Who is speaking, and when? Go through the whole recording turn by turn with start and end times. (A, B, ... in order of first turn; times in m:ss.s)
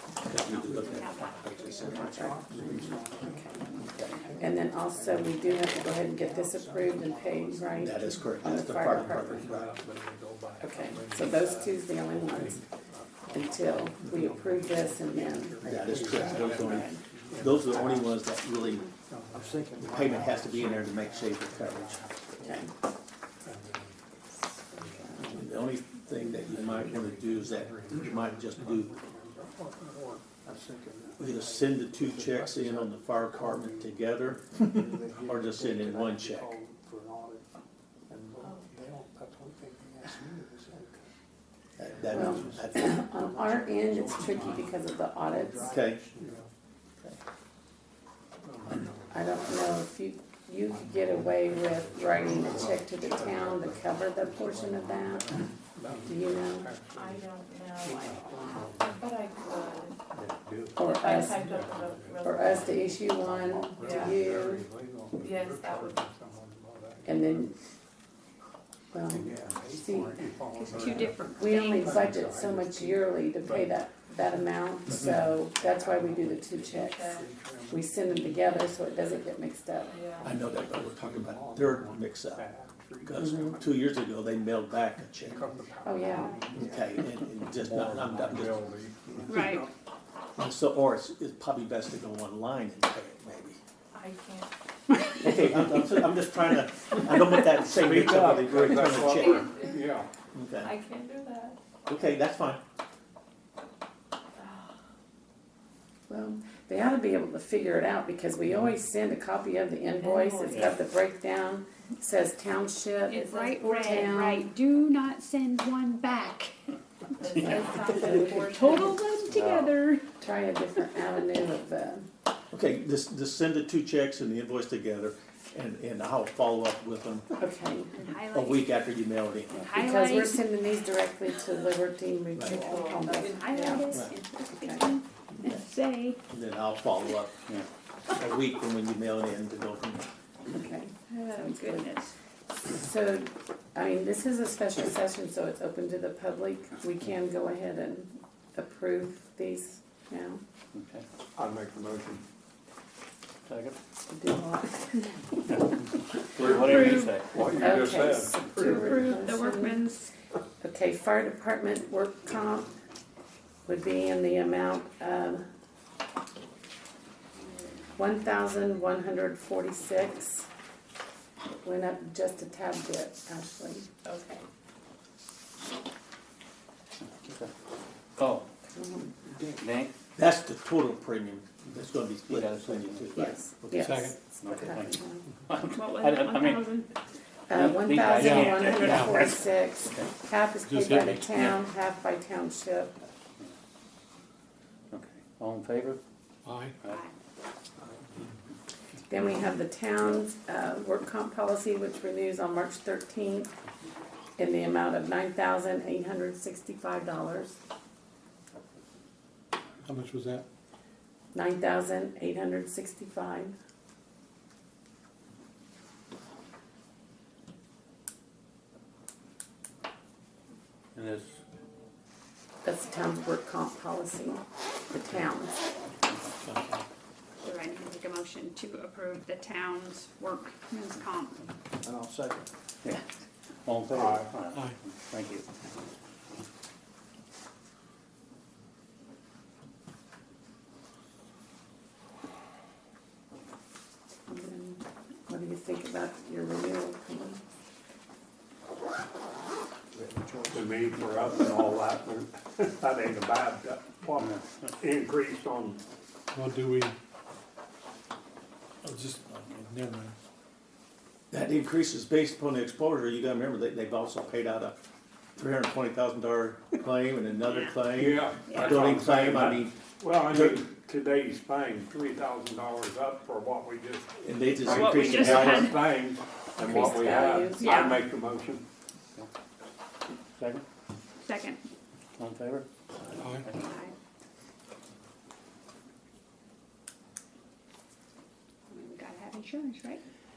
0:00.2-0:02.2 A
0:00.3-0:09.5 B
0:00.4-0:02.4 C
0:02.0-0:03.5 D
0:04.4-0:09.5 D
0:07.8-0:09.7 A
0:09.4-0:18.2 E
0:10.6-0:12.6 D
0:13.3-0:15.6 D
0:15.6-0:18.9 A
0:15.8-0:17.5 B
0:16.3-0:17.0 D
0:19.0-0:20.1 E
0:19.3-0:22.7 B
0:19.8-0:22.0 A
0:22.4-0:22.7 D
0:23.4-0:24.0 E
0:24.6-0:25.4 D
0:24.8-0:25.5 E
0:25.2-0:28.9 A
0:26.2-0:30.3 E
0:30.4-0:37.5 B
0:31.2-0:36.5 A
0:38.1-0:41.0 B
0:38.4-0:38.7 F
0:41.8-0:42.9 A
0:41.8-0:46.5 B
0:42.1-0:45.7 D
0:45.6-0:46.0 A
0:46.2-0:46.4 E
0:48.4-0:49.9 E
0:49.1-0:55.4 D
0:50.7-0:59.1 E
0:52.4-0:53.4 B
0:55.9-0:56.2 B
0:56.1-0:56.7 D
0:56.9-1:00.0 F
1:00.1-1:02.4 E
1:00.8-1:01.5 D
1:00.8-1:03.2 F
1:02.2-1:04.6 D
1:03.2-1:07.5 E
1:03.8-1:04.2 F
1:05.2-1:06.0 F
1:07.0-1:07.5 D
1:08.9-1:10.3 D
1:09.1-1:15.2 E
1:10.6-1:12.1 C
1:11.3-1:17.1 D
1:16.0-1:16.3 B
1:16.5-1:17.2 F
1:17.1-1:18.5 E
1:17.7-1:20.0 D
1:19.9-1:20.4 F
1:20.2-1:22.4 A
1:20.5-1:23.9 E
1:23.0-1:25.5 A
1:23.2-1:23.5 D
1:25.3-1:26.8 E
1:25.8-1:26.4 D
1:26.1-1:26.4 F
1:26.5-1:27.2 B
1:26.5-1:28.6 A
1:27.5-1:29.6 E
1:28.9-1:29.7 B
1:29.3-1:29.6 C
1:30.4-1:33.6 A
1:33.9-1:34.5 F
1:35.2-1:39.6 A
1:37.7-1:40.1 E
1:39.3-1:39.8 F
1:40.3-1:40.8 A
1:40.6-1:41.6 F
1:41.9-1:42.6 A
1:46.1-1:54.5 D
1:50.0-1:50.6 F
1:53.1-1:56.6 C
1:53.4-1:54.0 F
1:57.2-1:59.2 F
1:57.2-1:57.6 C
1:57.4-1:59.0 D
1:58.1-2:00.0 C
1:59.3-1:59.8 G
2:00.2-2:02.1 D
2:02.5-2:07.3 A
2:07.4-2:07.9 D
2:07.9-2:08.8 C
2:08.3-2:09.5 A
2:09.5-2:10.4 C
2:09.7-2:14.0 D
2:12.3-2:12.7 A
2:12.4-2:13.9 F
2:13.2-2:16.2 C
2:14.5-2:14.8 D
2:16.3-2:17.3 A
2:18.1-2:20.0 A
2:20.5-2:21.9 D
2:21.1-2:22.1 C
2:22.6-2:30.4 D
2:30.7-2:31.0 G
2:31.3-2:32.2 E
2:33.4-2:33.8 G
2:34.1-2:35.6 D
2:36.4-2:39.2 E
2:36.4-2:37.2 C
2:36.4-2:37.4 G
2:37.4-2:39.8 D
2:38.5-2:40.1 C
2:40.6-2:42.7 D
2:43.6-2:45.4 D
2:48.0-2:50.5 D
2:51.6-2:53.9 D
2:54.0-2:54.4 F
2:57.2-2:57.5 G
2:58.2-2:58.5 G
2:58.8-2:59.1 D
2:59.6-2:59.9 G
3:00.2-3:03.9 A
3:02.3-3:03.2 G
3:03.1-3:05.2 D
3:03.8-3:04.2 H
3:04.3-3:06.7 G
3:05.7-3:06.9 C
3:07.5-3:12.9 D
3:07.5-3:10.1 G
3:08.2-3:09.2 H
3:10.6-3:11.6 H
3:14.9-3:16.0 G
3:16.4-3:16.7 H
3:16.8-3:17.1 C
3:19.1-3:23.5 D
3:24.4-3:27.6 D
3:29.8-3:30.4 H
3:31.3-3:33.5 D
3:40.9-3:41.4 G
3:42.6-3:45.5 D
3:46.5-3:46.7 H
3:47.4-3:51.4 C
3:51.8-3:52.5 B
3:53.6-3:55.4 G
3:53.9-3:54.2 E
4:04.3-4:07.4 D
4:09.9-4:11.2 B
4:10.5-4:15.8 E
4:16.3-4:16.9 H
4:18.8-4:20.1 H
4:21.3-4:24.8 A
4:25.4-4:30.6 A
4:27.5-4:27.7 C
4:28.0-4:38.6 E
4:28.5-4:28.8 C
4:34.2-4:35.8 A
4:34.6-4:36.0 C
4:36.6-4:38.0 D
4:36.8-4:38.0 C
4:40.3-4:40.6 G
4:41.2-4:41.6 C
4:42.2-4:42.6 G
4:43.2-4:43.4 H
4:43.4-4:43.9 C
4:48.7-4:50.0 C